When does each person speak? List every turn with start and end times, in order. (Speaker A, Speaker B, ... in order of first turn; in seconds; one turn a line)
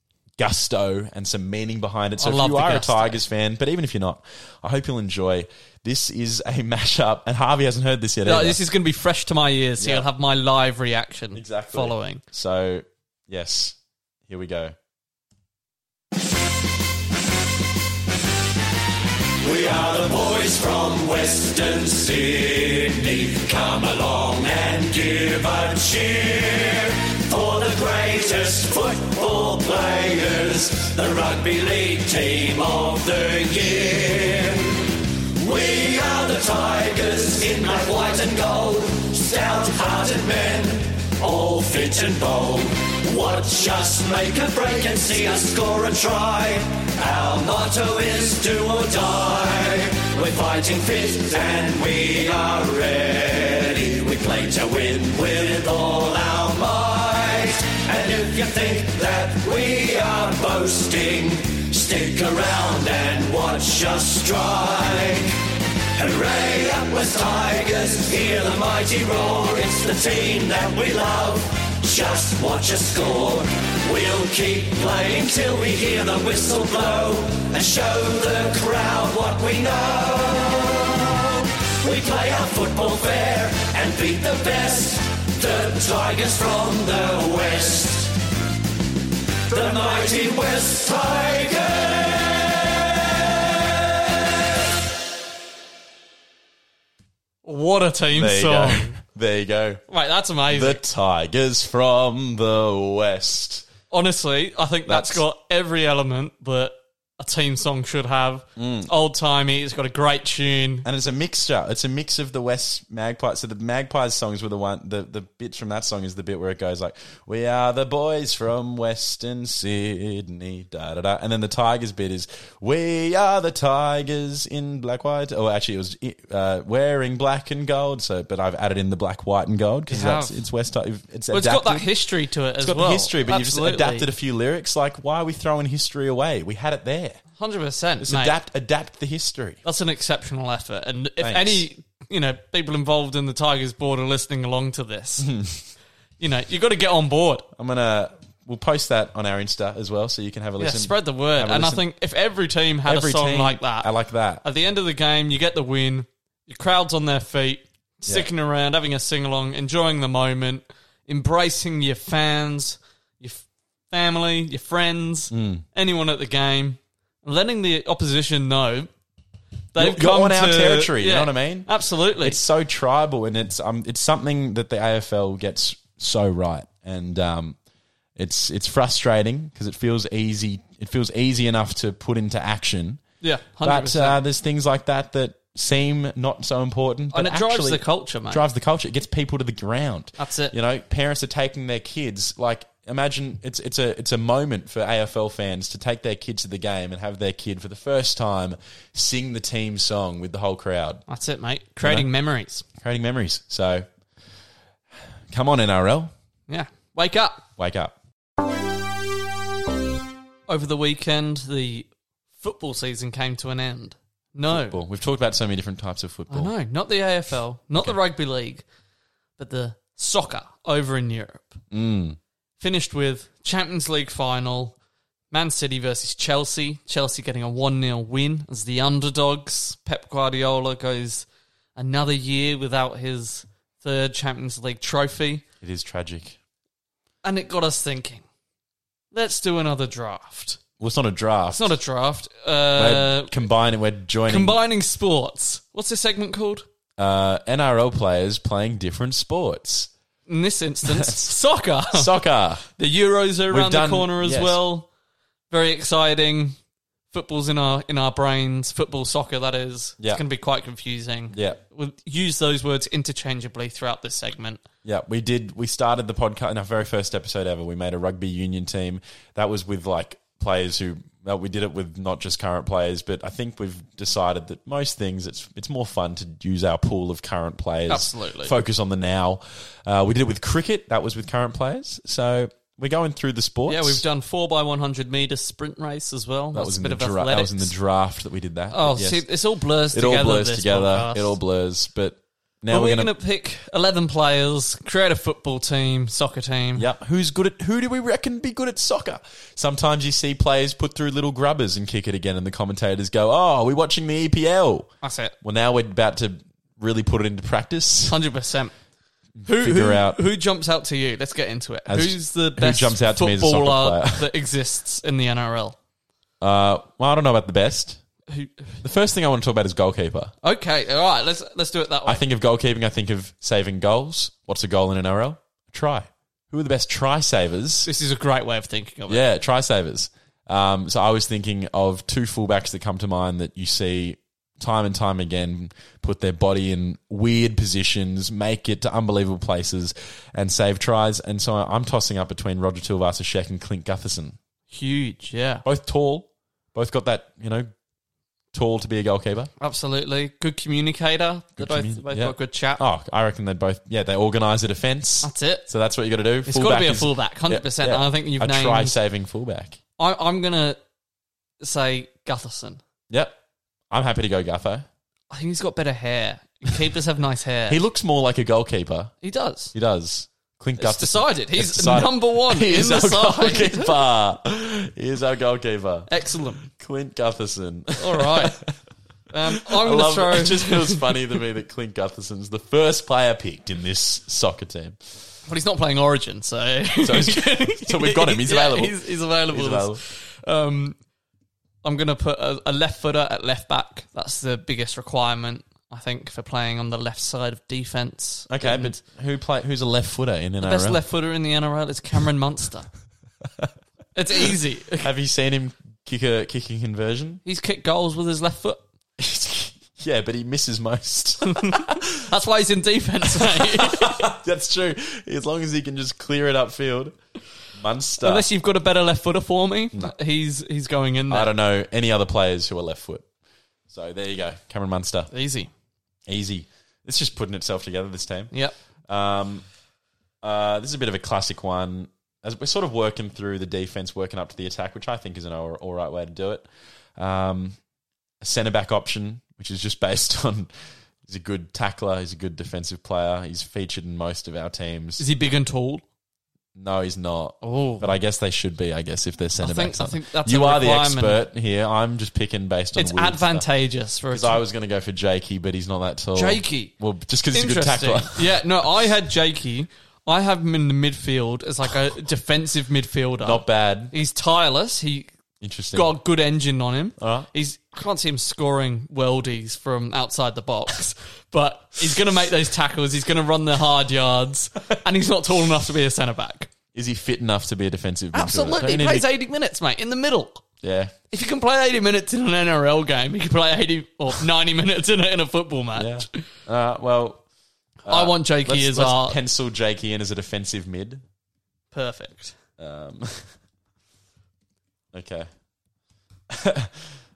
Speaker A: 0.4-8.6
Speaker B: 2.2-3.2
Speaker B: 8.2-12.2
Speaker A: 9.8-10.1
Speaker A: 11.3-14.7
Speaker C: 19.4-34.7
Speaker C: 35.4-65.3
Speaker C: 65.9-88.1
Speaker C: 89.5-92.5
Speaker B: 97.4-99.0
Speaker A: 98.1-99.8
Speaker B: 99.9-100.8
Speaker A: 100.5-103.7
Speaker B: 103.9-110.8
Speaker A: 104.9-105.2
Speaker A: 108.6-108.9
Speaker A: 110.8-131.9
Speaker B: 129.9-130.4
Speaker B: 131.3-134.1
Speaker A: 132.6-137.2
Speaker B: 137.4-138.3
Speaker A: 138.0-139.6
Speaker B: 139.6-145.3
Speaker A: 141.2-141.7
Speaker A: 145.2-145.7
Speaker B: 146.2-147.5
Speaker A: 147.5-151.8
Speaker B: 150.6-153.9
Speaker A: 152.8-154.4
Speaker B: 154.4-168.9
Speaker A: 165.3-165.6
Speaker B: 169.7-172.4
Speaker A: 169.8-177.6
Speaker A: 178.2-183.0
Speaker B: 183.2-184.2
Speaker A: 183.6-201.0
Speaker B: 187.1-188.4
Speaker B: 190.2-190.5
Speaker B: 201.1-202.6
Speaker A: 201.8-202.1
Speaker A: 202.8-203.9
Speaker A: 205.3-206.1
Speaker B: 206.5-207.4
Speaker A: 207.6-207.9
Speaker B: 210.5-214.8
Speaker A: 214.5-216.5
Speaker B: 216.3-218.6
Speaker B: 219.4-221.6
Speaker A: 221.7-222.2
Speaker B: 222.6-224.7
Speaker B: 225.3-235.4
Speaker A: 235.6-236.4
Speaker B: 237.2-238.2
Speaker B: 239.1-240.6
Speaker A: 240.8-241.8
Speaker B: 241.5-243.4
Speaker A: 242.8-244.6
Speaker B: 244.3-246.7
Speaker A: 247.0-249.9
Speaker B: 250.3-252.1
Speaker A: 250.8-251.2
Speaker A: 251.9-252.6
Speaker B: 252.7-254.9
Speaker A: 253.5-254.6
Speaker B: 255.5-256.6
Speaker B: 257.1-264.6
Speaker A: 261.3-261.6
Speaker A: 264.8-284.0
Speaker B: 277.9-278.5
Speaker B: 283.7-287.7
Speaker A: 286.5-289.2
Speaker B: 288.7-291.4
Speaker A: 289.9-293.1
Speaker B: 292.7-296.8
Speaker A: 296.7-308.2
Speaker B: 305.0-305.3
Speaker B: 308.1-308.7
Speaker A: 309.4-310.2
Speaker B: 309.4-315.8
Speaker A: 311.9-314.3
Speaker A: 316.4-318.0
Speaker B: 318.3-318.8
Speaker A: 318.8-320.3
Speaker B: 320.4-322.2
Speaker A: 322.1-327.9
Speaker B: 327.8-329.2
Speaker A: 329.1-344.4
Speaker B: 344.7-345.6
Speaker A: 345.6-347.7
Speaker A: 348.5-349.5
Speaker B: 349.6-352.8
Speaker A: 351.6-359.8
Speaker B: 355.2-355.7
Speaker B: 356.4-358.9
Speaker B: 360.0-360.8
Speaker B: 361.6-362.8
Speaker A: 363.1-363.4
Speaker A: 363.9-364.9
Speaker B: 365.3-367.8
Speaker A: 367.7-369.1
Speaker B: 369.2-369.7
Speaker A: 369.7-378.7
Speaker B: 370.8-373.9
Speaker B: 376.1-376.7
Speaker B: 378.0-378.6
Speaker B: 379.3-381.2
Speaker A: 379.5-385.0
Speaker B: 385.4-391.0
Speaker A: 387.0-390.0
Speaker B: 391.8-399.0
Speaker A: 398.5-401.0
Speaker B: 400.6-402.9
Speaker B: 404.1-405.1
Speaker A: 405.0-407.4
Speaker B: 407.4-408.8
Speaker A: 409.2-412.2
Speaker B: 411.5-414.3
Speaker A: 413.3-417.1
Speaker A: 417.7-418.5
Speaker B: 418.2-421.5
Speaker A: 421.3-423.3
Speaker A: 423.9-425.3
Speaker B: 425.3-425.7
Speaker A: 426.3-428.5
Speaker A: 429.1-429.6
Speaker A: 430.4-437.8
Speaker A: 438.4-440.7
Speaker A: 441.2-445.2
Speaker B: 445.2-446.0
Speaker A: 446.7-453.7
Speaker B: 447.6-448.1
Speaker B: 449.6-451.4
Speaker B: 452.9-454.6
Speaker A: 454.3-458.6
Speaker B: 456.3-456.9
Speaker B: 457.5-465.3
Speaker A: 463.4-464.1
Speaker A: 465.6-466.1
Speaker B: 465.9-476.7
Speaker A: 467.2-467.5
Speaker A: 476.9-479.3
Speaker B: 478.3-480.6
Speaker A: 480.8-481.1
Speaker B: 481.3-486.4
Speaker A: 485.9-487.4
Speaker A: 488.0-491.2
Speaker B: 488.1-489.4
Speaker B: 491.9-492.5
Speaker A: 492.8-493.5
Speaker A: 495.1-495.5
Speaker A: 496.5-497.1